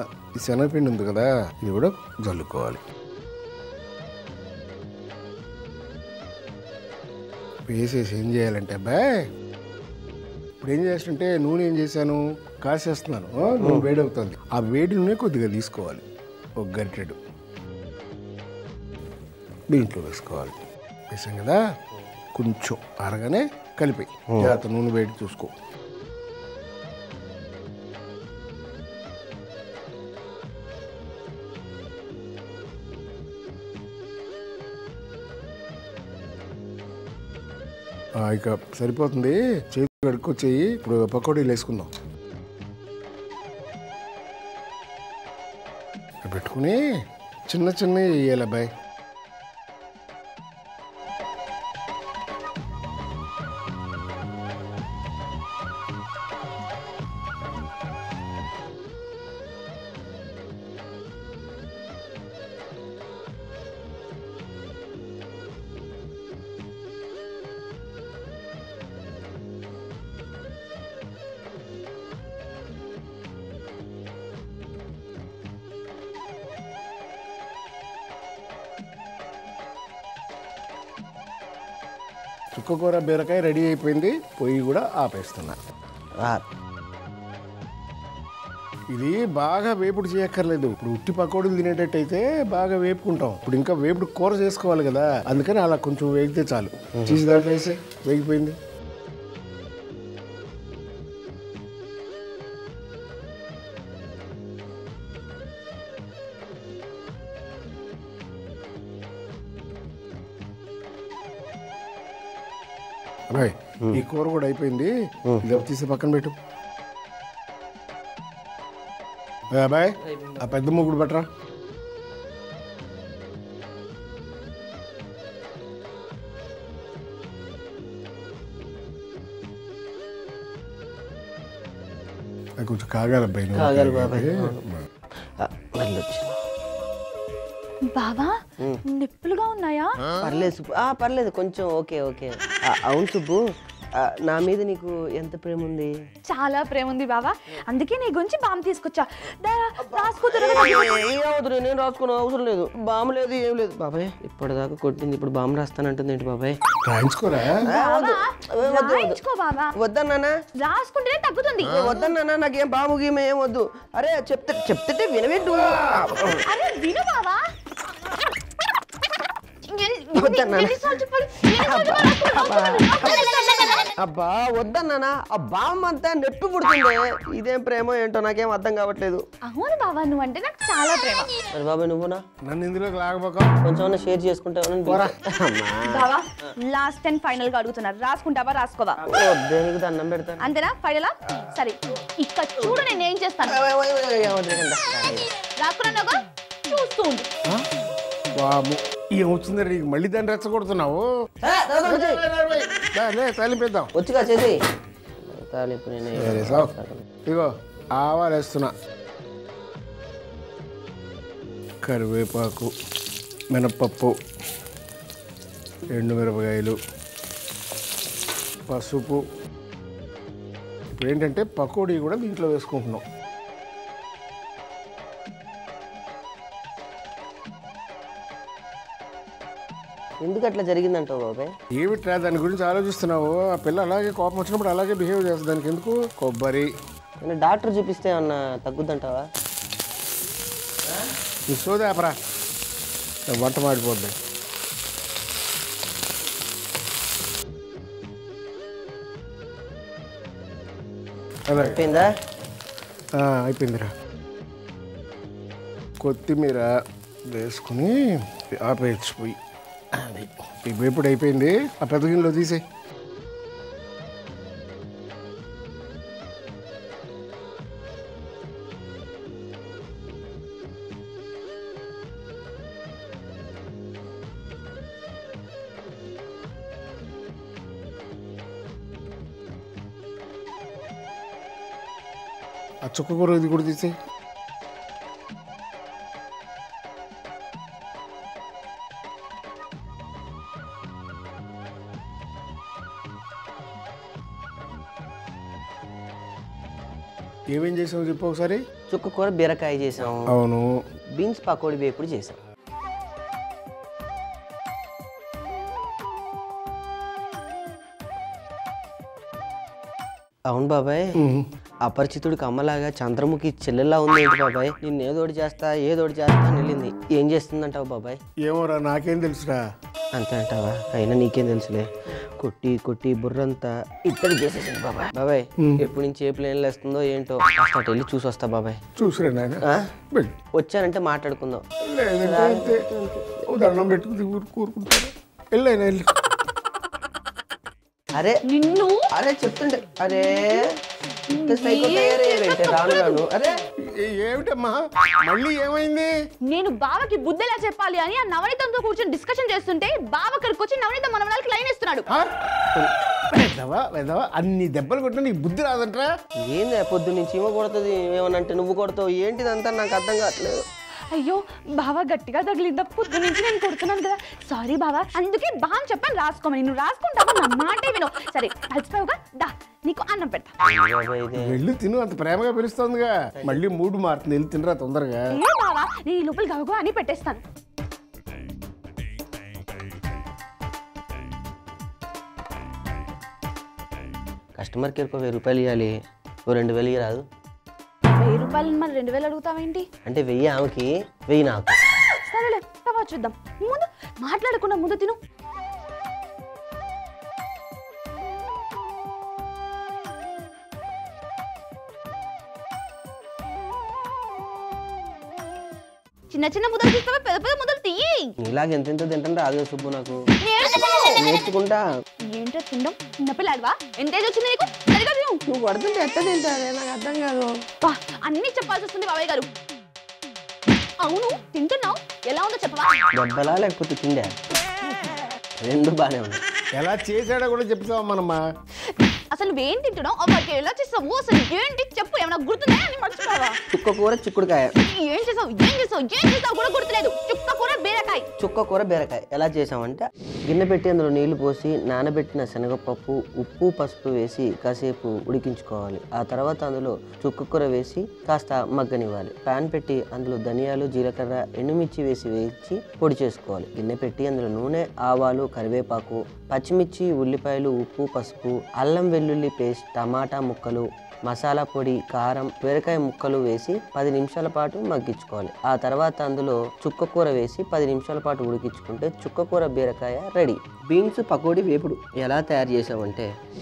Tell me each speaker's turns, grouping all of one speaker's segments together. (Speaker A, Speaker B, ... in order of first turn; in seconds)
Speaker A: 0.3-2.8, 7.7-9.2, 10.6-16.0, 16.6-17.2, 19.7-20.5, 21.1-21.6, 22.3-25.5, 38.2-41.9, 46.2-46.8, 47.5-48.7, 82.5-85.6, 88.9-98.6, 113.3-116.3, 119.5-121.3, 132.6-134.8, 156.8-157.6, 182.5-183.5, 184.8-185.1, 198.4-201.1, 201.8-203.9, 206.1-206.7, 207.2-208.7, 211.8-212.7, 213.5-214.1, 215.9-216.8, 218.7-219.2, 220.9-223.0, 231.7-236.7, 241.5-242.2, 243.3-244.2, 251.5-251.8, 253.2-253.9, 256.0-256.7, 257.3-259.4, 260.0-262.6, 282.9-283.9, 297.5-298.6, 300.3-300.7, 311.2-311.5, 318.4-319.6, 328.9-330.3, 331.8-332.9, 333.5-336.1, 343.9-346.1, 352.1-356.1, 371.3-375.2, 426.8-428.4
Speaker B: 13.6-13.9, 24.3-24.6, 133.5-134.6, 135.4-136.3, 140.2-143.4, 144.0-145.9, 149.9-156.6, 157.7-159.2, 159.8-160.3, 161.6-166.4, 170.1-179.2, 181.5-182.2, 183.6-186.1, 189.1-190.5, 193.4-195.3, 201.4-202.2, 203.9-204.6, 205.2-207.0, 230.2-231.5, 237.2-239.2, 251.5-252.1, 298.9-300.3, 301.1-302.4, 310.5-311.1, 311.9-318.2, 320.1-328.8, 330.5-331.6, 332.2-333.4, 338.1-338.4, 339.1-340.7, 341.3-343.6, 356.4-360.6, 370.6-371.6, 384.6-385.9, 386.5-387.2, 390.1-391.8, 408.4-410.2, 411.2-411.8, 415.5-417.6, 423.1-424.4, 425.6-426.4, 433.7-434.8, 438.4-473.3
Speaker C: 137.9-140.0, 146.3-151.0, 157.6-159.7, 160.6-162.0, 166.4-167.4, 169.6-173.9, 179.4-181.3, 185.9-189.0, 190.4-193.6, 195.6-197.3, 338.4-339.1, 341.3-343.2, 346.5-352.1, 361.1-370.5, 375.3-377.4, 388.1-389.9, 392.1-395.2, 406.3-408.3, 410.4-411.2, 412.3-415.4, 417.8-419.5, 421.0-423.0, 428.9-433.6, 434.8-438.2